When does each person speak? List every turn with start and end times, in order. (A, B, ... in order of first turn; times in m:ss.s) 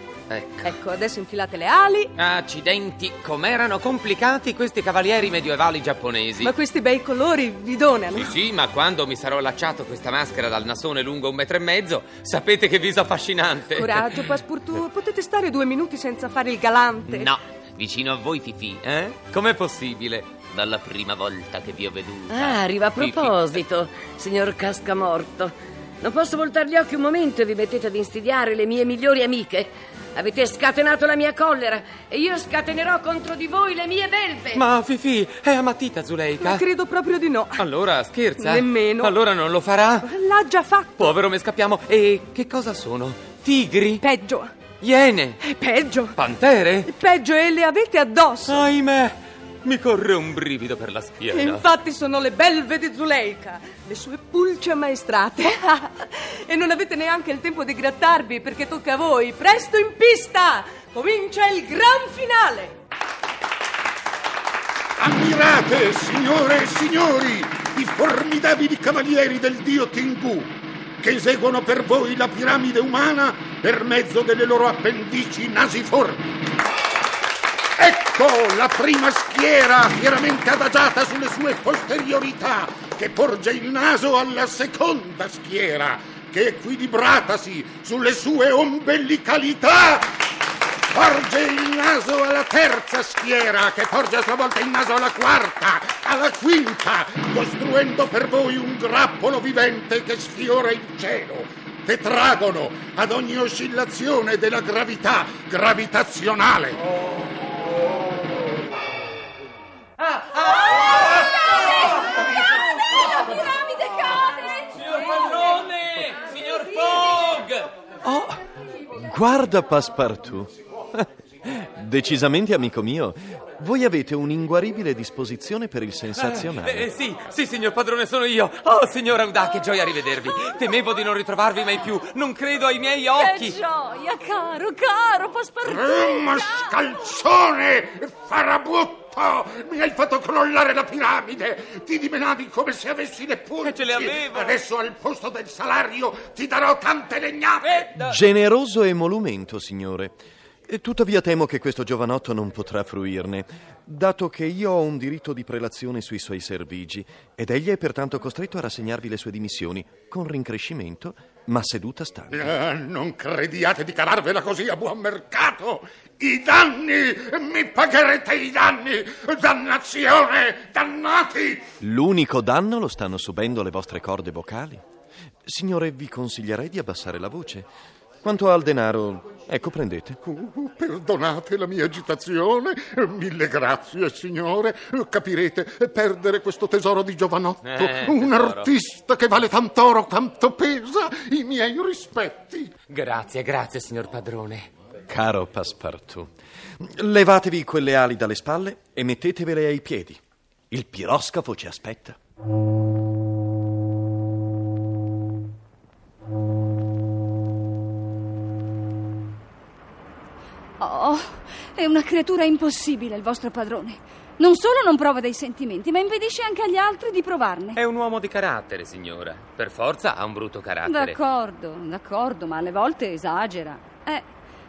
0:00.3-0:00.7 A
0:00.6-0:02.1 B
0:02.2-0:06.6 A
0:06.4-0:08.3 B
0:08.1-0:14.4 A
0:13.7-0:17.3 B
0:17.1-0:23.6 A
0:22.3-0:34.6 C
0:34.5-0:36.6 A
0:36.4-0:37.7 B
0:37.6-0:40.1 A
0:38.4-0:39.2 B
0:40.0-0:41.1 B
0:40.9-0:44.0 A
0:44.0-0:44.5 B
0:44.8-0:45.5 A
0:45.4-0:46.2 B
0:46.1-0:46.9 A
0:46.9-0:48.6 B
0:48.4-0:51.7 A
0:51.3-1:02.7 B
1:05.0-1:16.3 D
1:17.8-1:30.1 D
1:30.9-1:46.8 D
1:50.0-1:52.4 A
1:51.3-1:51.8 E
1:52.7-1:54.5 E
1:54.7-1:57.7 A
1:58.0-2:06.9 F
2:06.2-2:13.6 A
2:13.2-2:16.6 E
2:15.6-2:27.9 D
2:23.6-2:24.6 A
2:27.6-2:28.2 A
2:28.0-2:30.2 F
2:30.7-2:42.4 F
2:42.3-2:51.6 D
2:51.8-2:54.8 F
2:55.4-2:57.7 F
2:58.2-3:00.2 F
3:00.2-3:12.7 D
3:07.6-3:08.7 A
3:12.9-3:14.7 A
3:15.1-3:22.2 F
3:30.8-3:37.8 E
3:37.7-3:41.2 A
3:40.8-3:44.2 E